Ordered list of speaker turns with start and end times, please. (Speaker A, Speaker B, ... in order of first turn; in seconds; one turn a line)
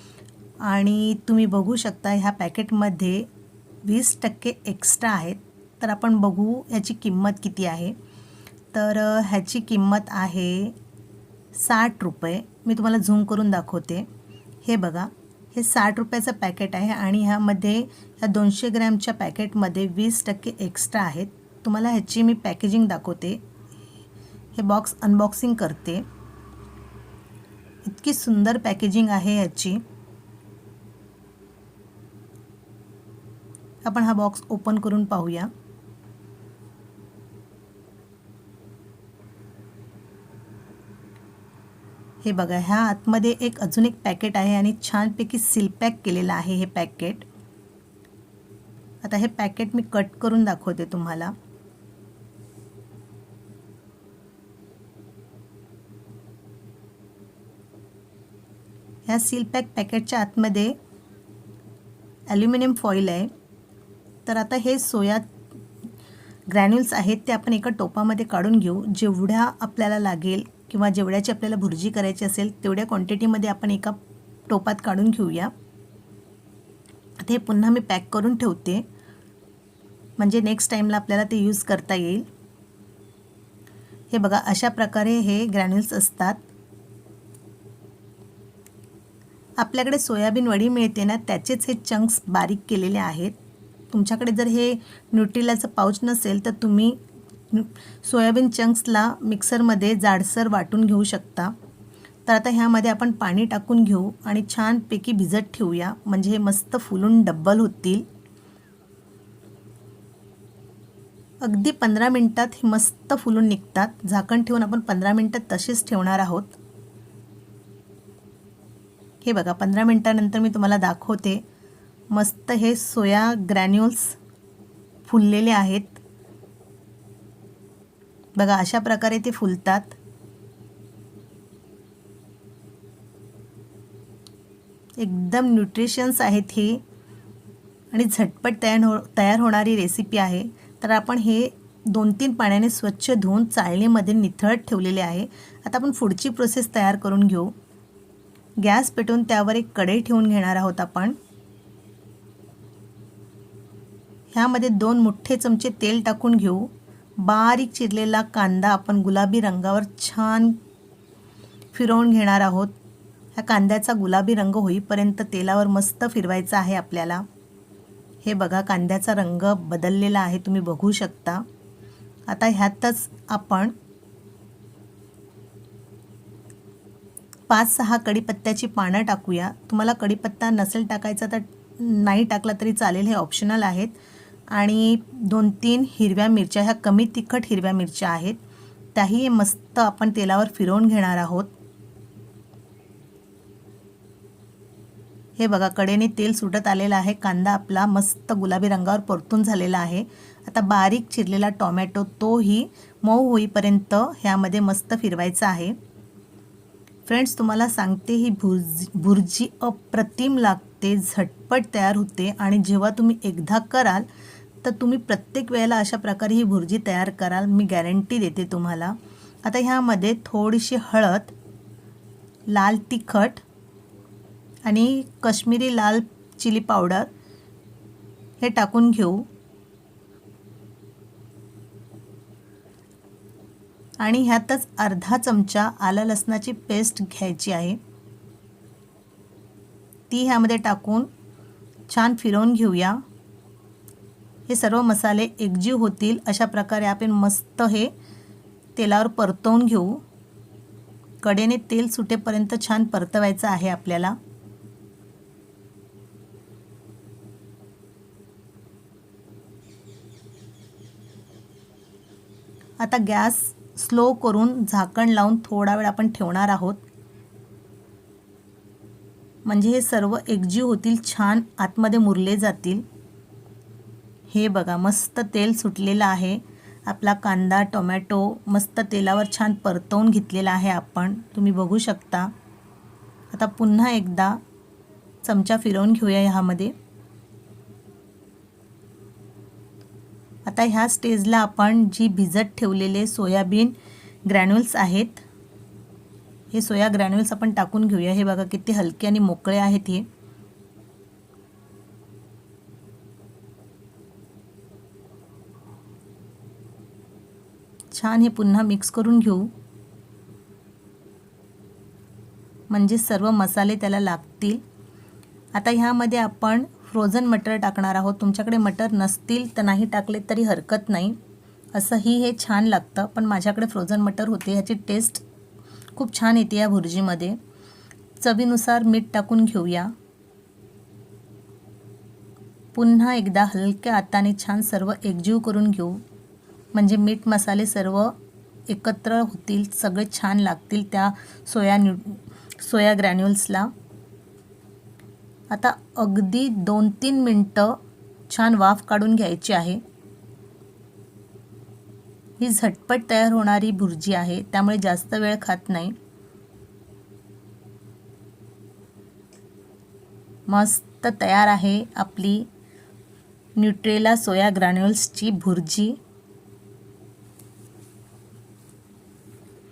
Speaker A: 0.6-3.3
Speaker A: 3.8-7.9
Speaker A: 8.7-10.7
Speaker A: 11.5-14.1
Speaker A: 14.6-23.4
Speaker A: 24.5-26.1
Speaker A: 27.8-29.8
Speaker A: 33.8-35.5
Speaker A: 42.2-47.3
Speaker A: 49.0-51.3
Speaker A: 59.1-60.8
Speaker A: 62.3-63.3
Speaker A: 64.2-65.3
Speaker A: 66.5-74.0
Speaker A: 74.5-75.5
Speaker A: 77.2-78.8
Speaker A: 80.2-82.2
Speaker A: 84.1-86.4
Speaker A: 89.6-93.3
Speaker A: 93.9-97.0
Speaker A: 97.5-101.5
Speaker A: 102.2-108.0
Speaker A: 111.4-116.6
Speaker A: 119.2-121.4
Speaker A: 122.1-124.2
Speaker A: 125.0-126.0
Speaker A: 128.3-130.0
Speaker A: 135.0-136.8
Speaker A: 137.9-147.5
Speaker A: 148.6-151.2
Speaker A: 154.3-160.6
Speaker A: 161.7-162.7
Speaker A: 163.3-167.2
Speaker A: 168.2-171.4
Speaker A: 172.3-173.7
Speaker A: 177.5-183.9
Speaker A: 184.5-188.4
Speaker A: 188.9-191.5
Speaker A: 195.4-205.7
Speaker A: 207.1-214.1
Speaker A: 214.6-221.3
Speaker A: 222.5-223.4
Speaker A: 224.6-227.1
Speaker A: 228.4-229.3
Speaker A: 234.0-237.8
Speaker A: 240.1-241.1
Speaker A: 241.9-243.0
Speaker A: 244.5-247.9
Speaker A: 248.8-250.0
Speaker A: 251.2-254.2
Speaker A: 262.8-266.8
Speaker A: 269.4-272.8
Speaker A: 274.3-282.3
Speaker A: 283.3-284.4
Speaker A: 285.2-286.7
Speaker A: 290.4-293.7
Speaker A: 294.2-295.2
Speaker A: 296.5-300.1
Speaker A: 307.9-309.5
Speaker A: 312.7-314.6
Speaker A: 315.5-321.2
Speaker A: 321.7-325.2
Speaker A: 325.9-327.4
Speaker A: 328.2-329.9
Speaker A: 332.7-336.0
Speaker A: 336.7-338.1
Speaker A: 338.7-343.7
Speaker A: 345.5-349.8
Speaker A: 352.4-355.9
Speaker A: 360.5-362.5
Speaker A: 363.6-366.0